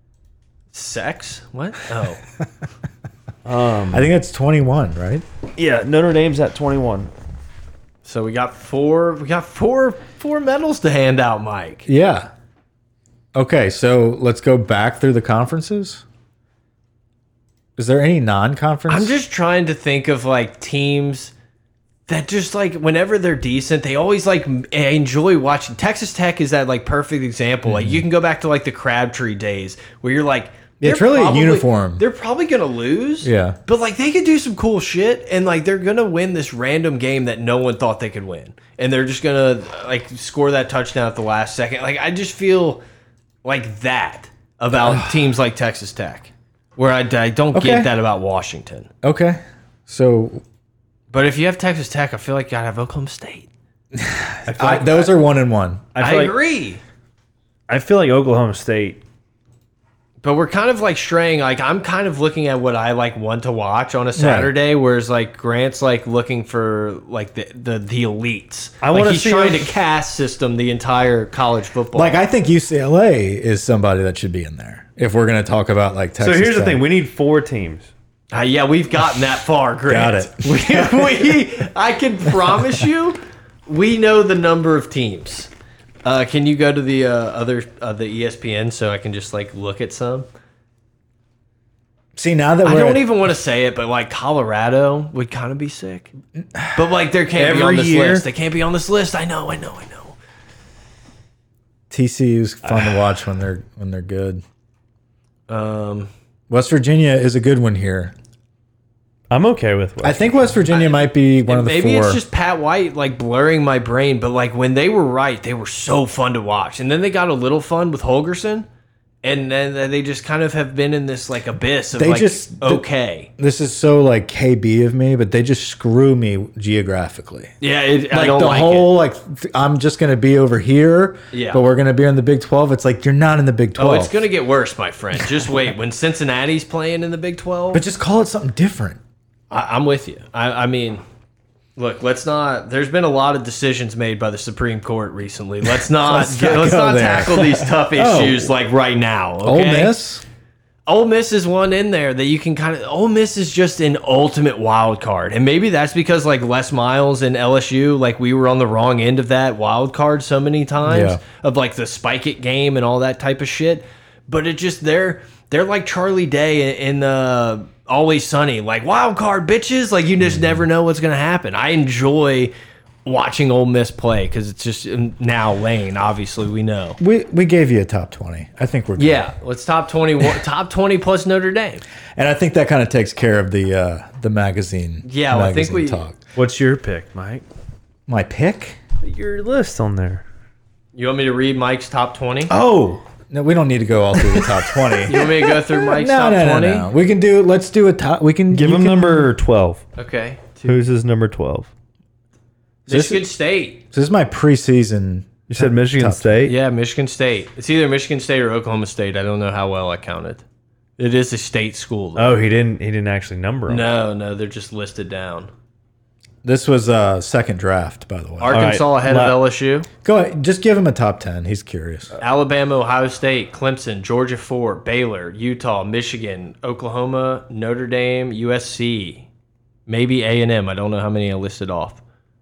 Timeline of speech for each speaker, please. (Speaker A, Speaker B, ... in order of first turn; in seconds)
Speaker A: 0.7-2.2, 8.0-11.9, 18.9-21.3, 22.1-42.8, 43.4-48.9, 51.1-53.5, 54.5-55.1, 56.0-56.8, 60.2-72.2, 78.3-85.5, 86.0-90.2, 92.6-96.1, 96.7-100.2, 105.5-106.1, 110.7-118.7, 119.2-123.3, 127.6-128.9, 131.3-131.6, 133.8-137.8, 139.5-141.0, 141.8-150.0, 150.9-172.5, 173.0-177.0, 179.0-181.8, 185.0-186.0, 190.9-192.5, 195.0-196.9, 200.0-200.8, 202.9-203.8, 206.4-210.4, 211.0-212.4, 213.7-215.5, 218.4-219.9, 222.2-229.2, 229.9-232.0
Speaker B: 3.4-4.1, 5.6-7.1, 55.9-56.4, 57.7-59.0, 68.8-69.7, 76.2-77.9, 97.3-98.2, 102.7-102.9, 109.3-110.5, 186.3-187.4, 189.0-190.2, 198.5-199.8, 200.7-201.7, 205.5-206.5, 212.2-213.9, 218.5-219.4
Speaker C: 3.9-5.2, 11.9-12.3, 13.3-16.0, 17.8-19.1, 27.6-28.1, 30.8-32.0, 33.2-33.6, 44.8-45.1, 47.5-47.9, 49.0-50.4, 53.9-55.9, 64.2-64.5, 71.9-76.8, 79.9-81.4, 92.2-93.0, 101.9-104.4, 106.5-108.1, 110.0-112.2, 122.0-122.8, 123.4-127.5, 128.1-134.2, 137.7-139.0, 145.9-148.5, 149.4-150.2, 160.8-161.2, 177.0-179.3, 182.2-186.2, 188.1-188.8, 192.5-199.3, 202.9-203.2, 203.9-206.4, 216.4-218.7, 220.0-222.2